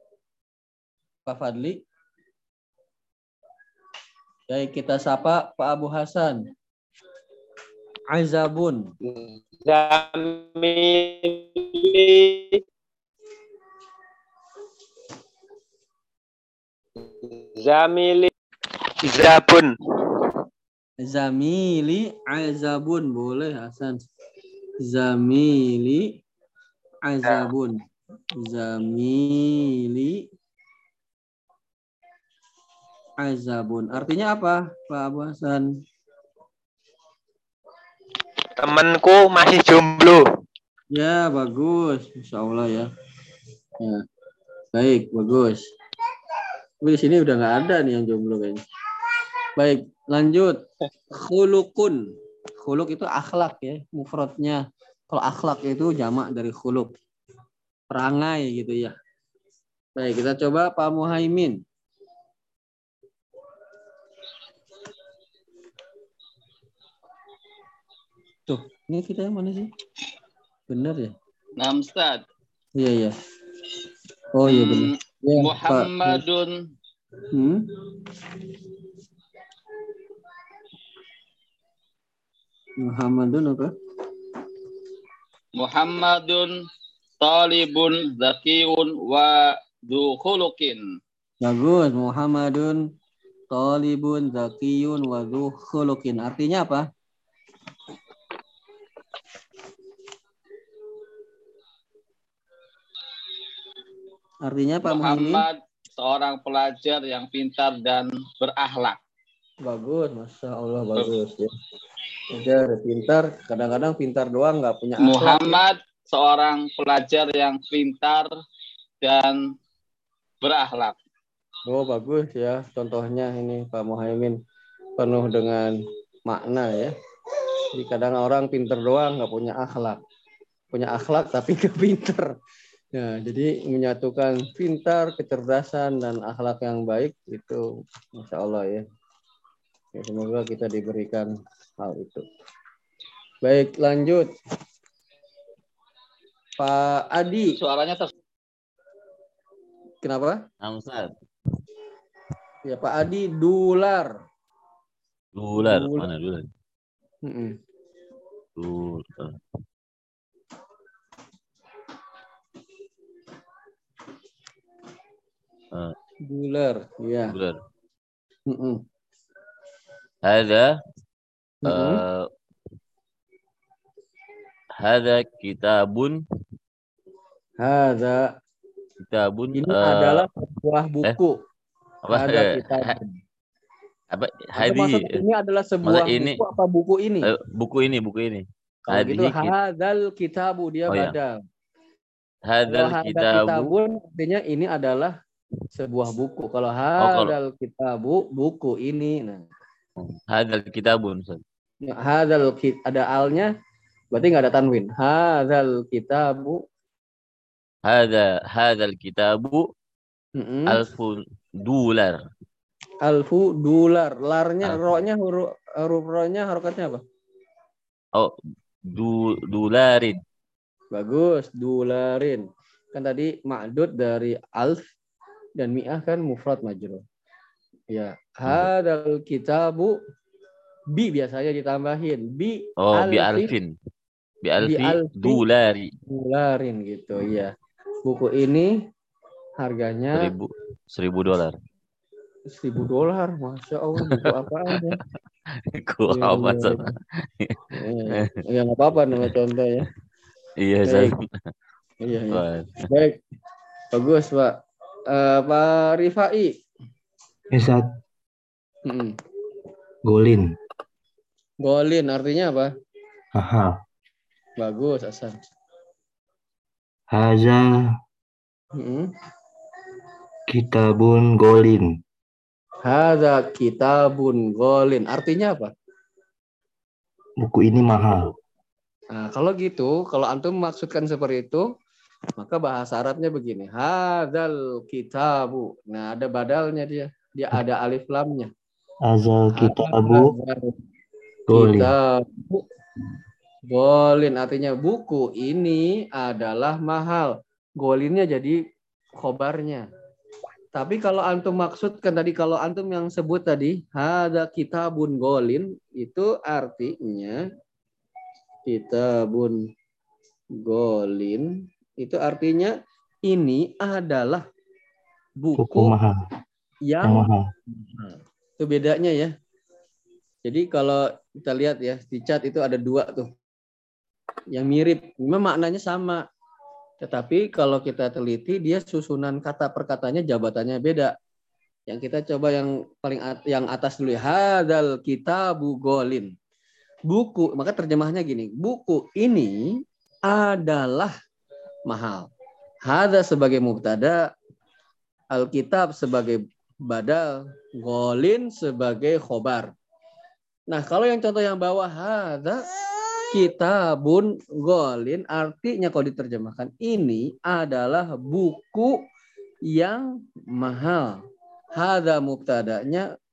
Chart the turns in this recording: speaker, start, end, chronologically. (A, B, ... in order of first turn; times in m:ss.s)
0:01.2-0:01.8 A
0:04.5-0:06.4 A
0:08.1-0:08.9 A
0:09.0-0:12.6 B
0:17.2-0:18.3 B
0:19.0-0:19.7 B
0:21.0-0:24.0 A
0:24.8-0:26.2 A
0:27.0-0:27.8 A
0:28.4-0:30.2 A
0:33.2-0:35.7 A
0:38.6-0:40.2 B
0:40.9-0:42.9 A
0:44.7-0:45.6 A
0:46.8-0:48.6 A
0:49.6-0:50.6 A
0:51.1-0:52.0 A
0:52.6-0:56.9 A
0:57.9-0:58.9 A
1:00.0-1:01.6 A
1:08.5-1:09.7 A
1:10.7-1:11.1 A
1:11.6-1:12.2 C
1:12.8-1:13.2 A
1:14.3-1:16.2 A
1:14.5-1:16.5 C
1:17.3-1:17.6 A
1:22.8-1:23.7 A
1:25.6-1:26.5 C
1:27.2-1:30.8 C
1:31.4-1:32.8 A
1:33.5-1:36.9 A
1:44.4-1:45.4 A
1:44.8-1:49.0 C
1:49.6-1:51.5 A
1:52.3-1:55.6 A
1:55.0-1:58.3 C
1:59.0-1:59.4 C
2:00.4-2:01.0 C
2:01.6-2:04.4 A
2:05.0-2:05.8 A
2:06.3-2:06.9 A
2:07.7-2:10.0 A
2:10.7-2:12.3 A
2:12.9-2:17.6 A
2:18.2-2:18.8 A
2:19.9-2:22.2 A
2:23.4-2:24.3 A
2:26.6-2:27.5 A
2:27.5-2:28.1 C
2:30.0-2:30.4 A
2:30.6-2:31.1 D
2:32.7-2:34.1 A
2:35.3-2:36.5 D
2:35.6-2:36.1 A
2:37.2-2:37.5 A
2:38.6-2:39.4 D
2:46.3-2:47.4 A
2:47.3-2:47.6 D
2:48.5-2:48.8 A
2:50.2-2:50.7 D
2:51.6-2:52.0 A
2:51.6-2:52.3 D
2:54.8-2:56.2 D
2:57.6-2:58.2 A
2:59.0-3:00.2 D
2:59.5-3:01.4 A
3:02.0-3:03.0 D
3:02.1-3:03.2 A
3:04.1-3:05.2 D
3:04.6-3:07.3 A
3:05.8-3:06.4 D
3:07.2-3:09.5 D
3:08.9-3:11.3 A
3:10.9-3:11.1 D
3:12.5-3:13.7 D
3:12.7-3:15.1 A
3:15.7-3:19.4 A
3:17.0-3:17.4 D
3:20.0-3:21.4 D
3:21.8-3:23.5 A
3:24.1-3:26.6 A
3:27.8-3:29.7 D
3:30.4-3:30.8 A
3:30.7-3:32.2 D
3:33.0-3:37.0 A
3:38.9-3:40.2 D
3:40.9-3:44.8 A
3:45.6-3:47.0 A
3:47.9-3:50.0 A
3:50.9-3:53.5 A
3:52.8-3:53.7 D
3:54.4-3:55.9 D
3:54.6-3:55.4 A
3:56.0-3:57.5 A
3:58.0-3:58.7 A
3:59.6-4:00.3 A
4:00.1-4:01.6 D
4:02.5-4:05.0 A
4:04.0-4:04.9 D
4:05.6-4:07.6 D
4:06.1-4:06.9 A
4:07.7-4:09.9 A
4:10.6-4:11.1 D
4:10.8-4:11.1 A
4:12.0-4:13.2 A
4:12.3-4:12.8 D
4:13.9-4:14.6 A
4:15.1-4:16.5 A
4:17.5-4:17.9 E
4:18.8-4:19.1 A
4:20.0-4:20.5 E
4:21.6-4:22.7 A
4:23.3-4:23.8 E
4:24.6-4:25.4 A
4:27.1-4:27.9 E
4:28.8-4:29.1 A
4:30.5-4:32.0 E
4:32.8-4:35.7 A
4:37.4-4:38.3 E
4:39.1-4:41.7 A
4:42.4-4:48.5 A
4:49.0-4:50.3 E
4:49.5-4:50.8 A
4:51.5-4:51.9 E
4:51.5-4:52.6 A
4:53.7-4:58.6 A
4:59.2-4:59.8 A
5:00.7-5:07.4 A
5:08.7-5:09.6 A
5:10.6-5:12.7 A
5:13.3-5:14.4 A
5:15.4-5:15.9 A
5:15.6-5:16.2 E
5:16.9-5:17.3 A
5:17.0-5:17.5 E
5:17.8-5:19.3 A
5:20.4-5:23.3 A
5:24.5-5:26.2 A
5:27.0-5:31.1 A
5:31.9-5:36.3 A
5:37.1-5:39.7 A
5:40.3-5:41.1 A
5:41.9-5:42.3 A
5:42.8-5:44.2 A
5:45.3-5:49.7 A
5:50.7-5:52.6 A
5:53.3-5:59.0 A
5:59.7-6:01.2 A
6:01.8-6:03.1 A